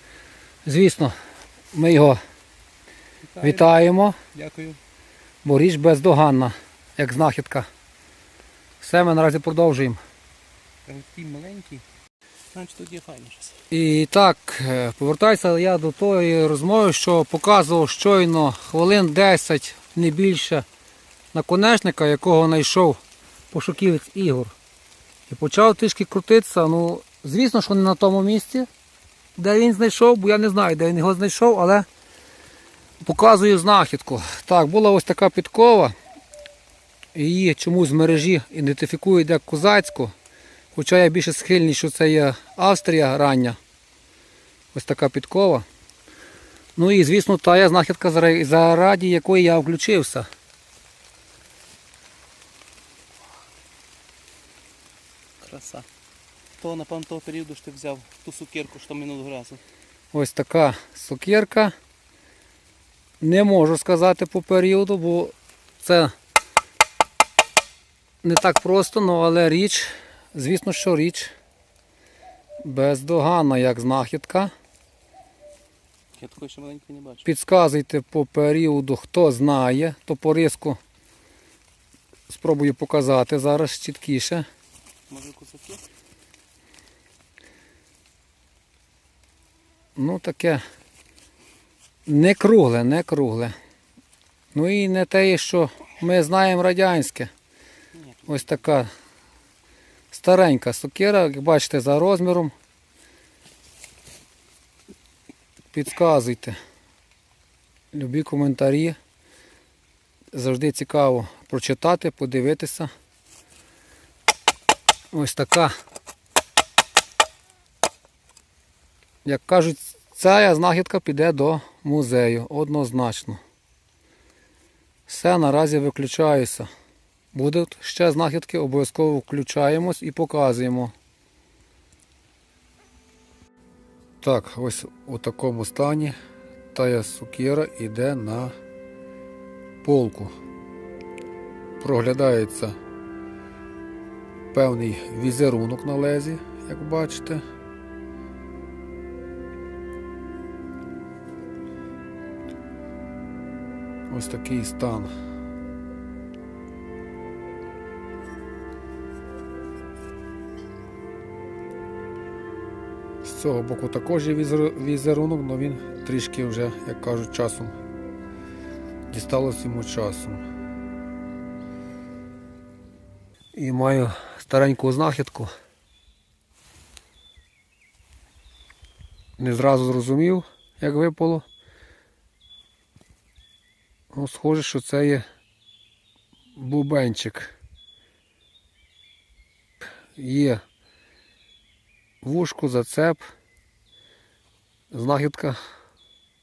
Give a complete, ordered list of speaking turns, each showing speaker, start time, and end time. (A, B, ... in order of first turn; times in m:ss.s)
0:00.6-0:01.1 A
0:01.7-0:02.2 A
0:03.3-0:03.7 B
0:03.4-0:04.2 A
0:04.3-0:04.8 B
0:05.4-0:07.6 A
0:08.8-0:10.0 A
0:10.8-0:11.8 B
0:12.5-0:13.6 B
0:13.7-0:20.6 A
0:21.3-0:23.0 A
0:23.5-0:24.5 A
0:25.3-0:28.7 A
0:29.4-0:31.8 A
0:33.0-0:35.9 A
0:37.1-0:40.1 A
0:40.7-0:43.6 A
0:44.7-0:45.6 A
0:46.8-0:50.3 A
0:55.4-0:55.9 B
0:56.6-0:59.6 B
1:00.1-1:01.7 A
1:03.2-1:06.1 A
1:08.2-1:11.3 A
1:12.6-1:14.5 A
1:16.2-1:17.3 B
1:17.2-1:20.8 A
1:22.3-1:24.4 A
1:25.1-1:25.8 B
1:30.0-1:30.6 A
1:32.1-1:33.5 A
1:34.5-1:37.3 A
1:38.3-1:38.9 A
1:40.1-1:42.5 A
1:45.7-1:46.6 A
1:47.9-1:49.0 A
1:50.3-1:52.9 A
1:55.1-1:55.7 A
1:59.2-2:03.4 A
2:05.1-2:06.7 A
2:07.3-2:10.9 A
2:14.2-2:16.1 A
2:16.7-2:18.5 A
2:19.8-2:20.3 A
2:21.8-2:22.8 A
2:24.5-2:27.4 A
2:34.1-2:35.1 A
2:43.2-2:47.7 A
2:49.1-2:50.4 A
2:53.5-2:55.5 A
2:59.4-3:01.4 A
3:04.1-3:05.2 A
3:06.6-3:07.5 A
3:10.1-3:10.6 A
3:12.2-3:13.2 A
3:14.9-3:15.6 A